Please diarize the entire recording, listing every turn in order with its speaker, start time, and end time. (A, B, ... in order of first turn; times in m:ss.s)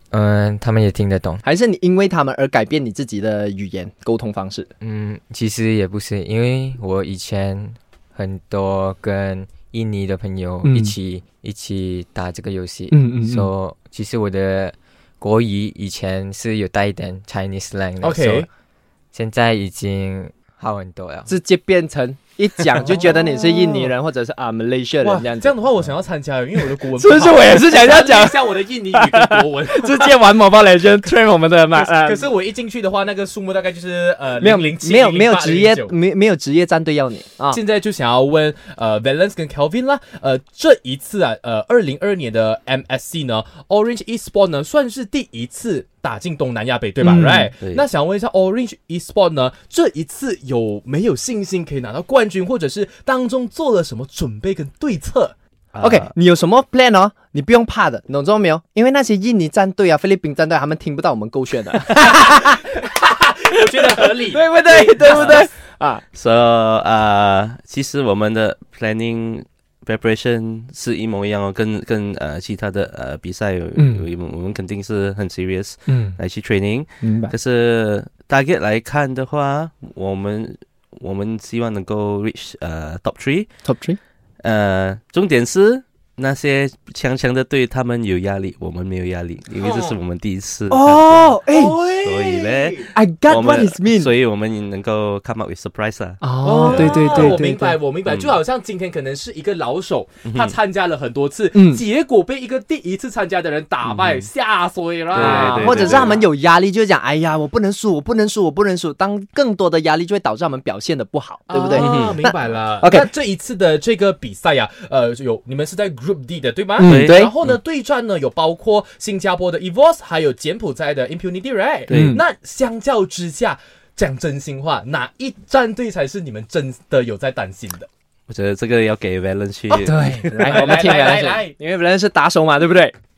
0:00.1-0:01.4 A
0:01.4-0:04.7 B
0:04.8-0:18.5 A
0:10.6-0:10.9 B
0:12.9-0:13.5 B
0:18.0-0:18.5 C
0:19.1-0:21.3 A
0:21.3-0:25.6 B
0:22.8-0:23.9 C
0:25.0-0:30.2 C
0:26.9-0:32.3 B
0:31.7-0:35.9 C
0:34.4-0:37.6 B
0:37.5-0:55.3 C
0:47.0-0:47.5 B
0:55.7-0:56.1 D
0:55.8-1:02.7 B
1:01.9-1:05.4 C
1:03.6-1:06.0 B
1:05.0-1:05.4 D
1:06.1-1:23.5 D
1:13.8-1:14.0 B
1:15.9-1:16.2 B
1:17.0-1:17.3 B
1:23.6-1:24.0 B
1:24.4-1:31.4 D
1:29.6-1:30.0 C
1:30.7-1:31.7 B
1:31.5-1:32.8 C
1:32.0-1:37.4 D
1:32.9-1:34.1 B
1:36.2-1:37.8 B
1:36.4-1:46.2 C
1:38.0-1:38.4 D
1:40.2-1:40.5 D
1:41.5-1:41.8 B
1:43.9-1:44.2 D
1:45.1-1:46.2 D
1:45.2-1:53.1 B
1:51.5-2:07.9 C
1:51.8-1:52.2 D
1:56.8-1:57.3 B
1:56.8-1:57.5 D
2:01.9-2:02.2 D
2:01.9-2:02.2 B
2:08.3-2:10.6 D
2:09.7-2:12.9 B
2:10.2-2:11.5 C